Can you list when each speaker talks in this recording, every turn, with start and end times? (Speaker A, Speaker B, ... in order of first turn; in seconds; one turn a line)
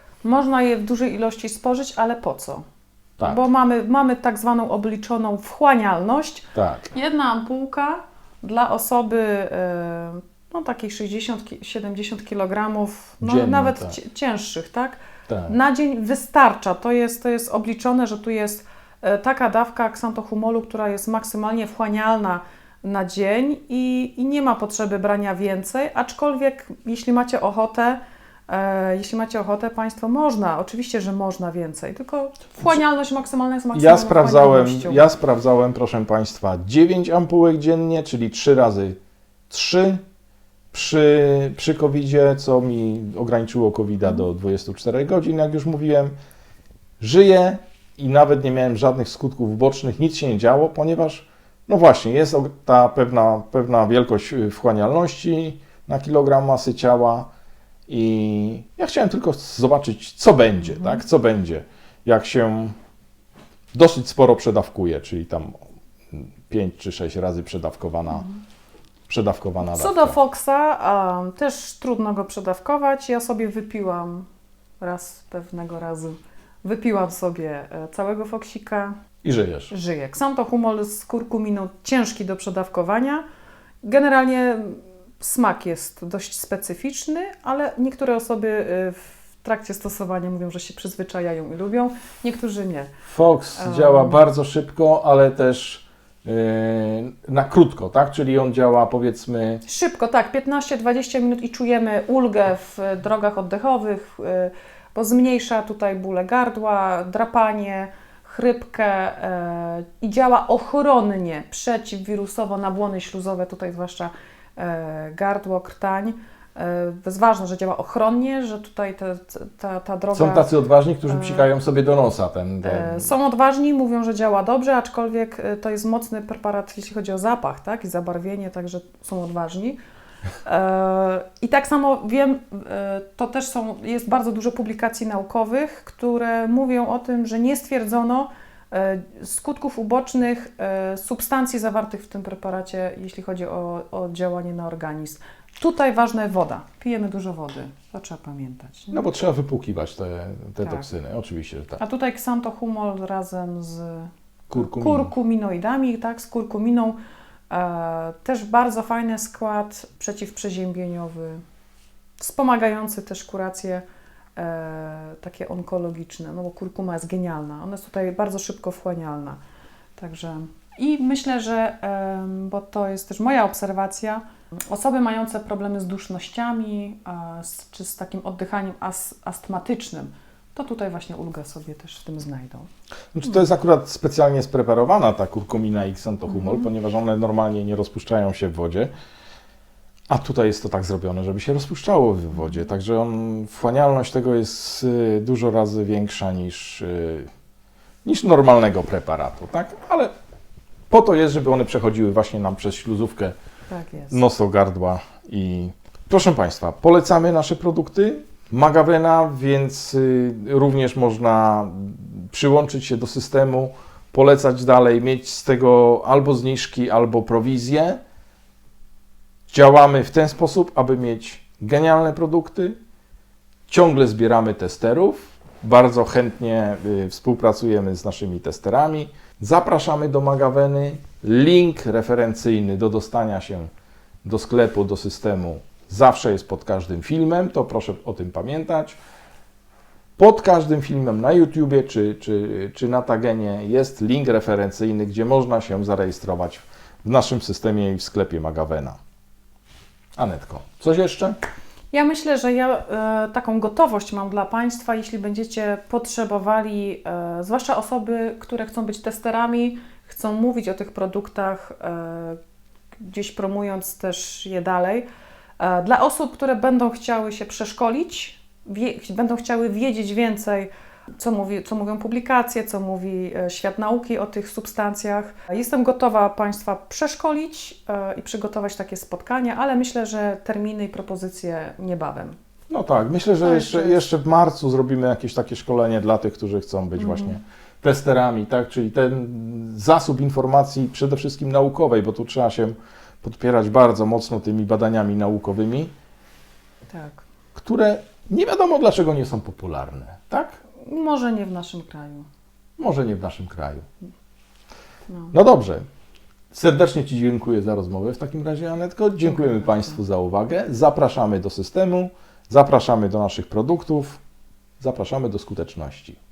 Speaker A: 0.2-2.7
Speaker A: 3.2-35.0
Speaker B: 6.5-6.9
Speaker B: 13.2-14.0
Speaker B: 15.3-15.5
Speaker B: 33.7-39.0
Speaker B: 39.5-40.0
Speaker B: 40.7-46.1
Speaker B: 47.0-57.3
Speaker B: 57.9-62.8
Speaker B: 63.7-65.5
Speaker B: 66.1-68.3
Speaker B: 69.1-70.2
Speaker A: 69.6-74.3
Speaker A: 74.8-79.0
Speaker B: 79.2-79.7
Speaker A: 79.7-83.2
Speaker A: 83.8-92.9
Speaker B: 93.1-99.6
Speaker A: 93.6-94.2
Speaker A: 99.7-120.5
Speaker B: 120.1-123.1
Speaker A: 121.1-121.5
Speaker A: 122.6-129.8
Speaker A: 130.4-149.0
Speaker B: 148.9-151.8
Speaker A: 151.8-157.0
Speaker B: 154.5-155.1
Speaker A: 157.5-161.4
Speaker A: 162.2-163.8
Speaker A: 164.4-169.4
Speaker A: 170.0-182.7
Speaker B: 183.1-188.9
Speaker B: 190.1-197.3
Speaker B: 198.0-200.1
Speaker B: 200.9-203.4
Speaker A: 203.7-204.2
Speaker B: 204.1-218.0
Speaker B: 219.5-222.8
Speaker B: 223.7-233.7
Speaker B: 234.2-239.0
Speaker B: 240.2-249.0
Speaker B: 250.2-251.4
Speaker A: 251.9-262.4
Speaker A: 263.0-265.1
Speaker A: 265.6-282.4
Speaker B: 282.7-295.9
Speaker A: 283.4-284.0
Speaker A: 287.0-287.4
Speaker A: 296.9-297.2
Speaker B: 297.6-300.6
Speaker A: 300.8-302.3
Speaker B: 302.8-303.9
Speaker A: 305.1-305.3
Speaker B: 305.3-305.9
Speaker B: 306.5-314.2
Speaker A: 309.3-310.0
Speaker B: 314.8-316.2